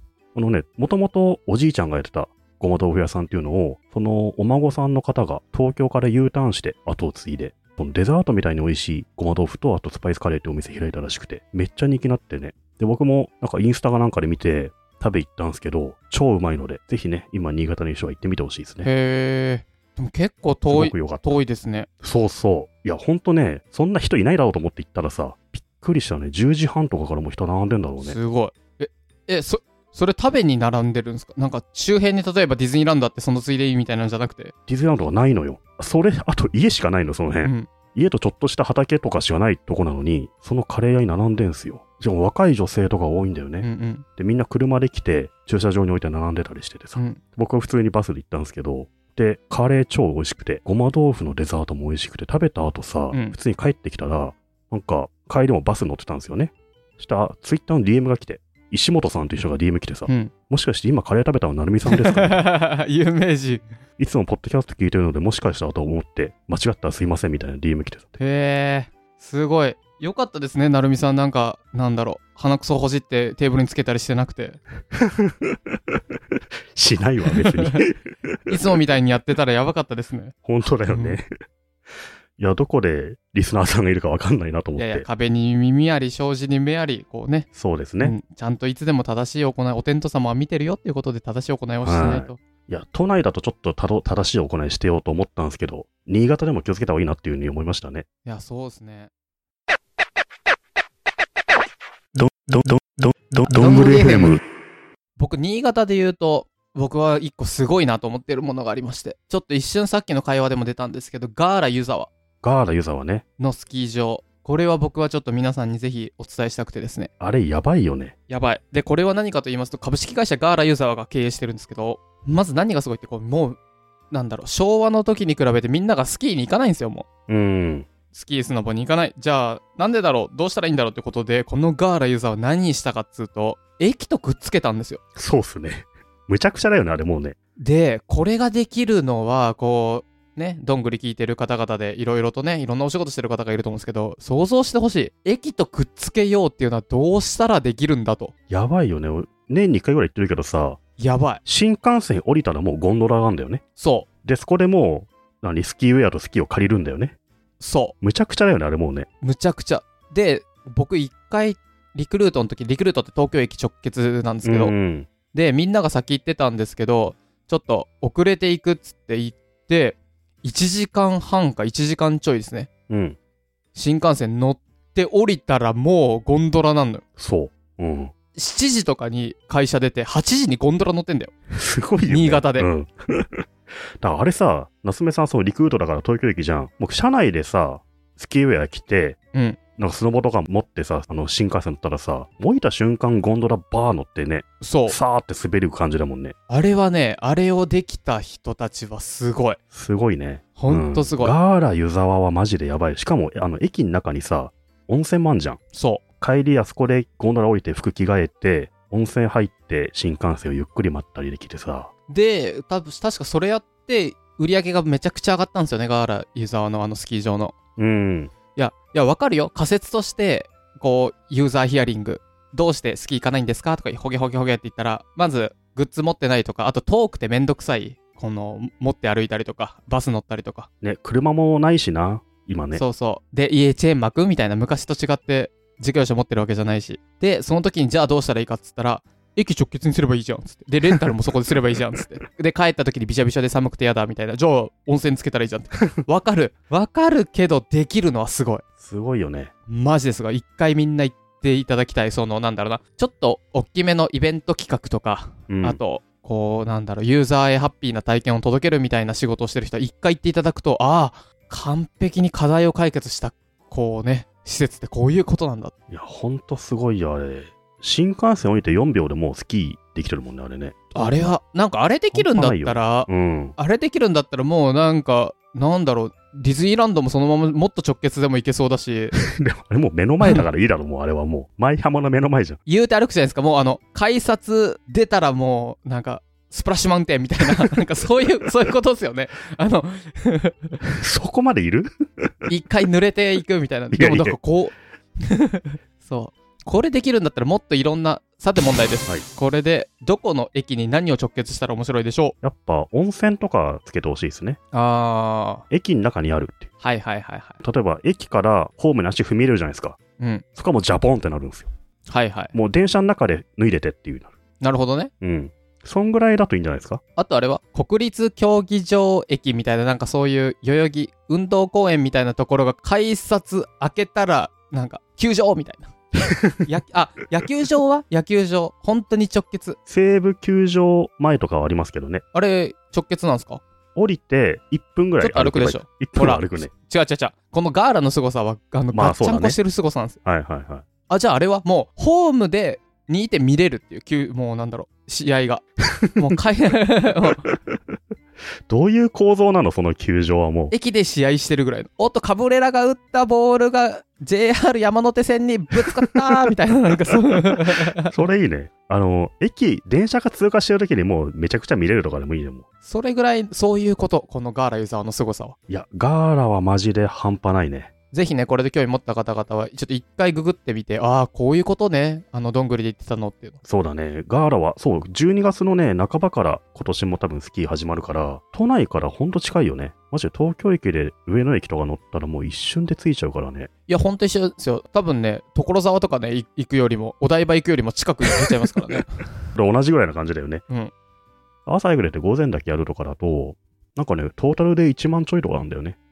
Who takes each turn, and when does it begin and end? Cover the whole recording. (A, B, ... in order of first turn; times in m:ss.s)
0:00.4-0:18.9 A
0:18.8-0:21.9 B
0:20.7-0:21.4 A
0:22.0-0:28.2 A
0:28.0-0:34.5 B
0:34.7-1:02.4 A
0:43.6-0:44.0 B
0:53.1-0:53.4 B
1:00.1-1:00.3 B
1:01.9-1:03.7 B
1:04.0-1:08.2 A
1:08.2-1:14.6 B
1:15.0-1:16.0 A
1:16.8-1:18.6 A
1:18.5-1:20.3 B
1:20.4-1:21.3 A
1:20.9-1:21.2 B
1:22.4-1:25.1 A
1:24.8-1:27.5 B
1:27.6-1:28.2 A
1:28.0-1:32.4 B
1:31.8-1:38.1 A
1:38.2-1:39.1 B
1:42.2-1:44.4 A
1:43.5-1:44.4 B
1:45.2-1:52.1 B
1:52.4-1:53.2 A
1:53.4-1:57.1 B
1:57.2-1:58.2 A
1:58.3-2:03.6 B
2:04.1-2:07.1 B
2:07.3-2:07.9 A
2:08.1-2:15.0 B
2:15.2-2:17.4 A
2:17.6-2:28.3 B
2:28.5-2:30.8 A
2:31.0-2:31.4 B
2:31.4-2:33.6 A
2:33.8-2:34.1 B
2:34.2-2:37.2 A
2:37.6-2:37.9 B
2:38.0-2:39.1 A
2:39.2-2:44.8 B
2:44.4-2:45.1 A
2:45.3-2:52.7 B
2:52.9-2:53.2 A
2:53.7-2:57.0 B
2:57.2-2:58.1 A
2:58.4-3:01.3 B
3:01.5-3:03.4 A
3:02.1-3:02.7 B
3:04.0-3:09.2 A
3:09.8-3:16.3 A
3:14.6-3:15.0 B
3:16.5-3:19.6 B
3:19.7-3:25.6 A
3:20.6-3:21.4 B
3:25.7-3:26.0 B
3:26.2-3:31.9 A
3:32.1-3:37.5 B
3:37.8-3:38.3 A
3:38.6-3:50.7 B
3:50.8-3:52.8 A
3:52.7-4:08.6 B
4:08.8-4:09.5 A
4:09.7-4:25.7 B
4:15.5-4:15.8 A
4:25.9-4:31.3 A
4:31.0-4:39.2 B
4:32.1-4:33.6 A
4:39.1-4:42.6 A
4:42.7-4:50.8 B
4:51.0-4:52.5 A
4:52.5-5:02.4 B
4:53.9-4:54.4 A
5:02.4-5:04.6 A
5:04.7-5:05.6 B
5:05.7-5:06.7 A
5:06.8-5:07.6 B
5:07.6-5:10.0 A
5:10.2-5:10.4 B
5:10.6-5:11.7 A
5:12.1-5:12.5 B
5:12.5-5:14.3 A
5:14.6-5:15.1 B
5:15.2-5:17.0 A
5:17.2-5:25.9 B
5:26.6-5:29.8 B
5:29.9-5:32.2 A
5:32.3-5:33.6 B
5:34.0-5:36.7 A
5:35.2-5:40.2 B
5:38.9-5:39.6 A
5:40.2-5:40.8 A
5:41.1-5:45.6 B
5:46.2-5:47.4 B
5:47.3-5:47.8 A
5:48.7-5:50.7 A
5:50.7-5:58.1 B
5:58.0-6:02.6 A
6:02.8-6:05.6 B
6:05.7-6:07.9 A
6:08.1-6:13.6 B
6:13.6-6:23.7 A
6:23.9-6:29.2 B
6:29.6-6:30.6 A
6:31.7-6:36.0 A